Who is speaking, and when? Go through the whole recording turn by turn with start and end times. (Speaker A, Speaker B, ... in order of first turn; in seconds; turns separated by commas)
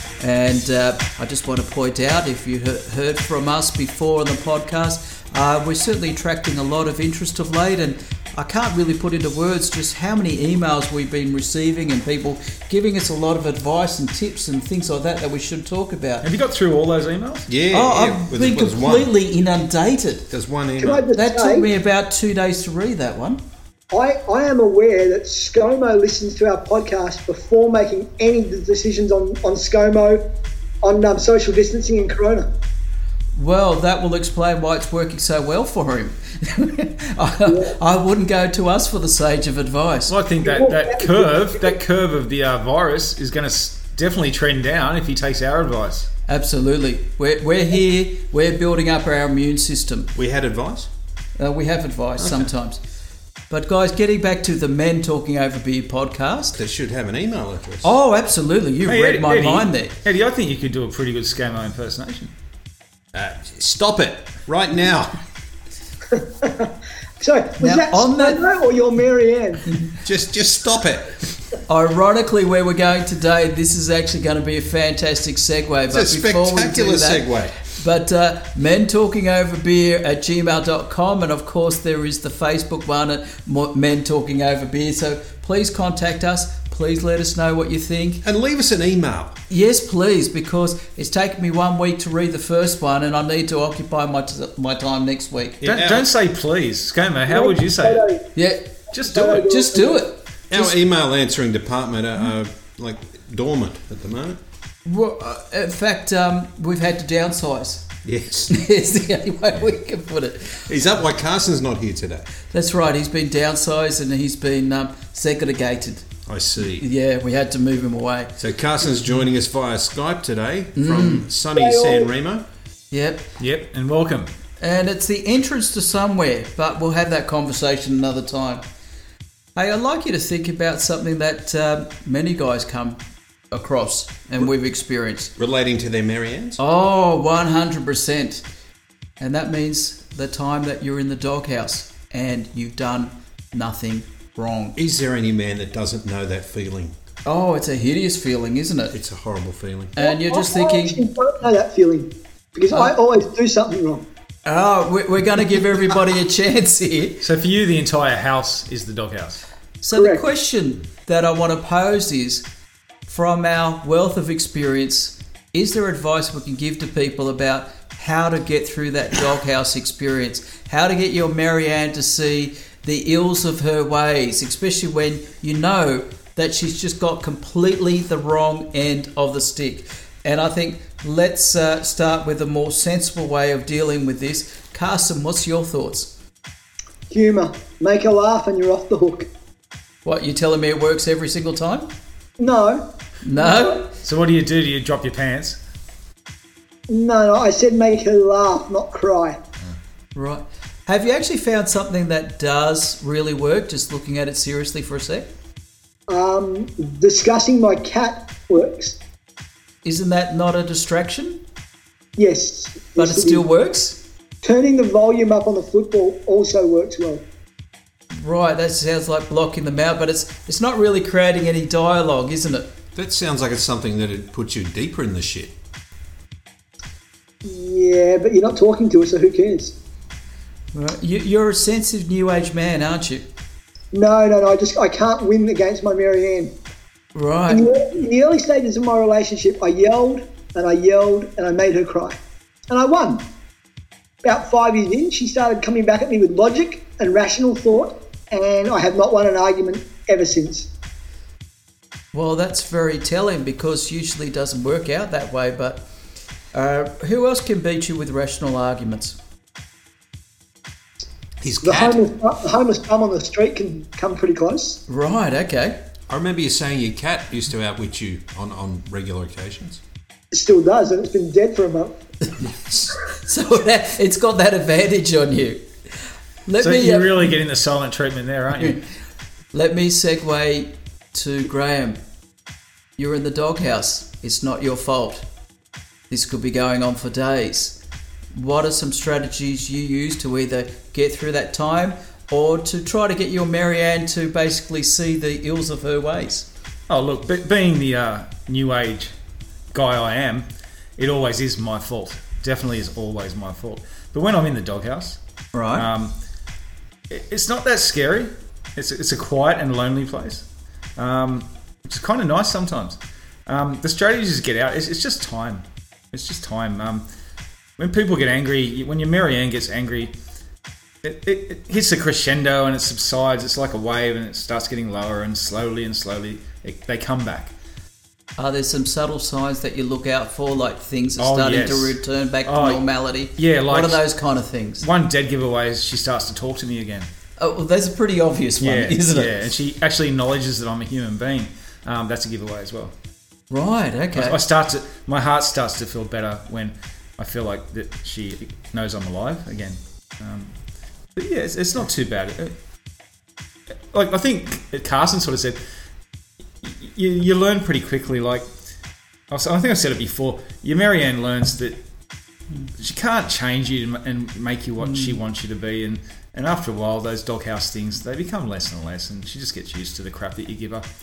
Speaker A: 0.2-16.3, Speaker B: 16.2-17.5, Speaker C: 17.5-19.1, Speaker A: 17.7-20.3, Speaker D: 20.8-21.7, Speaker A: 21.1-23.4, Speaker D: 23.9-30.2, Speaker D: 30.8-32.5, Speaker A: 33.3-40.1, Speaker D: 37.5-37.7, Speaker B: 40.1-46.1, Speaker D: 40.4-41.7, Speaker A: 46.3-50.1, Speaker C: 50.4-50.8, Speaker A: 51.4-52.8, Speaker A: 53.5-56.6, Speaker C: 56.6-57.8, Speaker A: 57.8-60.0, Speaker B: 58.9-62.3, Speaker C: 63.9-64.8, Speaker D: 66.4-66.7, Speaker D: 67.2-69.7, Speaker A: 67.6-68.4, Speaker C: 70.3-71.0, Speaker A: 71.7-88.2, Speaker C: 75.9-77.5, Speaker C: 88.3-89.3, Speaker A: 89.5-95.6, Speaker B: 95.6-98.0, Speaker C: 95.7-96.0, Speaker D: 97.3-98.2, Speaker A: 98.3-100.6, Speaker B: 98.9-99.5, Speaker D: 99.1-100.0, Speaker C: 100.7-102.3, Speaker A: 104.8-107.9, Speaker A: 108.5-110.7, Speaker C: 111.7-112.2, Speaker A: 112.5-118.3, Speaker C: 116.3-116.8, Speaker C: 118.8-122.4, Speaker A: 120.8-121.3, Speaker D: 121.4-122.1, Speaker A: 122.9-123.3, Speaker B: 123.4-124.3, Speaker A: 124.6-128.6, Speaker A: 129.5-133.0, Speaker A: 133.5-135.3, Speaker C: 135.8-136.6, Speaker A: 136.6-138.4, Speaker A: 139.2-144.8, Speaker C: 144.8-146.1, Speaker A: 147.2-148.9, Speaker C: 149.1-149.9, Speaker D: 149.9-154.1, Speaker A: 150.0-151.0, Speaker A: 154.4-157.2, Speaker B: 157.2-159.4, Speaker A: 159.8-162.4, Speaker D: 159.9-160.2, Speaker A: 163.1-186.1, Speaker D: 187.1-189.3, Speaker A: 190.0-191.9, Speaker D: 192.4-192.9, Speaker A: 193.2-193.9, Speaker D: 193.4-193.7, Speaker B: 194.0-195.6, Speaker D: 196.9-199.4, Speaker A: 200.1-205.3, Speaker D: 206.1-208.9, Speaker A: 209.8-211.4, Speaker D: 212.2-213.4, Speaker A: 212.9-214.0, Speaker D: 214.4-217.2, Speaker A: 218.1-222.7, Speaker C: 223.0-224.2, Speaker C: 225.1-225.4, Speaker D: 227.4-229.7, Speaker A: 230.7-233.2, Speaker D: 233.9-236.5, Speaker A: 237.1-237.6, Speaker D: 237.5-242.2, Speaker D: 242.7-243.2, Speaker D: 244.2-250.7, Speaker A: 252.1-255.8, Speaker A: 256.5-259.1, Speaker C: 261.6-261.9, Speaker D: 261.6-264.8, Speaker A: 264.9-265.8, Speaker C: 266.1-269.8, Speaker D: 270.3-271.9, Speaker A: 272.9-275.6, Speaker A: 276.4-277.3, Speaker B: 276.6-278.8, Speaker A: 279.5-282.0, Speaker A: 283.0-285.2, Speaker A: 286.1-287.8, Speaker A: 288.3-296.5, Speaker B: 296.9-299.1, Speaker B: 299.7-300.4, Speaker B: 301.0-305.2, Speaker A: 305.5-305.9, Speaker B: 305.7-306.1, Speaker B: 307.1-310.4, Speaker B: 311.0-317.0, Speaker B: 317.8-320.1, Speaker B: 321.0-327.5, Speaker A: 328.4-334.9, Speaker B: 331.2-334.0, Speaker B: 334.8-337.1, Speaker A: 337.4-339.4, Speaker B: 338.6-342.9, Speaker A: 343.5-344.4, Speaker B: 344.1-350.5, Speaker B: 351.1-352.5, Speaker B: 353.9-355.6, Speaker B: 356.6-358.4, Speaker B: 359.3-361.8, Speaker B: 362.8-370.9, Speaker A: 364.8-365.2